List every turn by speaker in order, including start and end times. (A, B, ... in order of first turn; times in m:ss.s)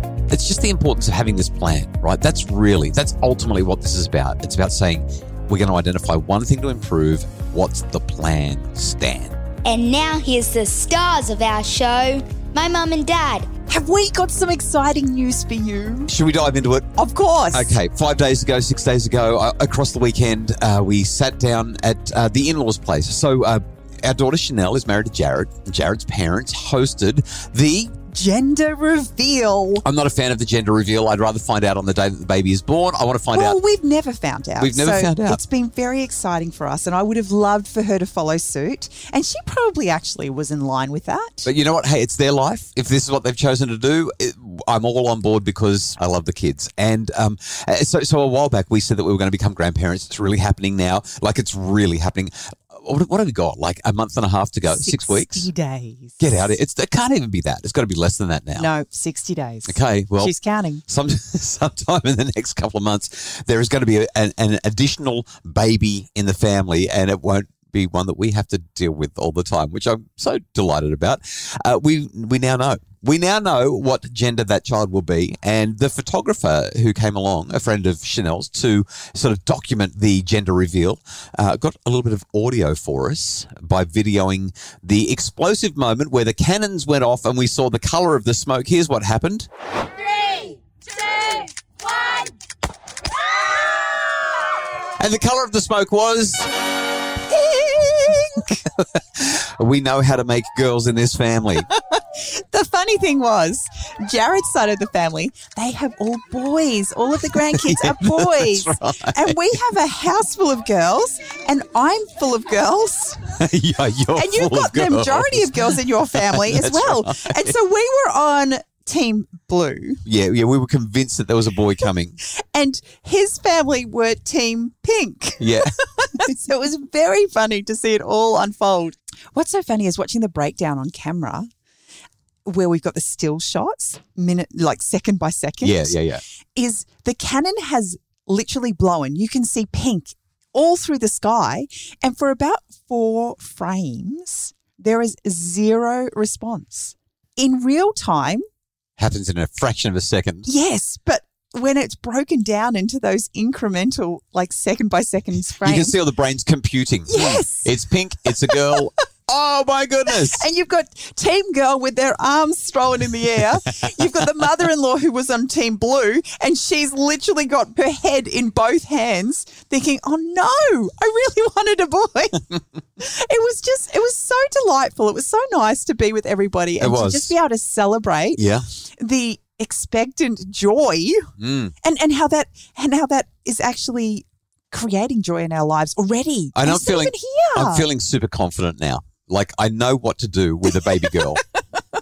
0:00.3-0:09.4 A
0:09.6-0:13.5 B
0:13.7-0:16.1 C
0:16.1-0:17.0 A
0:17.0-0:17.8 C
0:17.5-0:27.9 A
0:28.1-0:29.8 C
0:29.8-0:33.6 A
0:33.3-0:41.5 C
0:34.6-0:35.4 A
0:41.4-0:55.5 A
0:54.7-0:56.2 C
0:56.2-0:58.7 A
0:58.6-1:00.8 C
0:59.6-1:00.3 A
1:00.9-1:29.5 A
1:35.0-1:36.5 A
1:37.4-1:38.2 C
1:38.3-1:41.7 A
1:41.6-1:53.2 C
1:47.3-1:49.4 A
1:53.4-1:57.5 A
1:54.1-2:00.0 C
2:00.0-2:02.2 A
2:02.2-2:11.5 C
2:05.4-2:05.7 A
2:12.4-2:16.0 C
2:15.6-2:16.2 A
2:16.5-2:28.4 C
2:29.0-2:30.5 A
2:30.4-2:36.0 C
2:35.6-2:40.4 A
2:37.1-2:38.9 C
2:40.1-2:52.4 C
2:43.4-2:44.4 A
2:53.0-3:01.3 C
2:56.8-2:57.3 A
2:58.4-2:58.6 A
3:01.4-3:01.7 A
3:01.8-3:07.9 C
3:06.5-3:11.4 A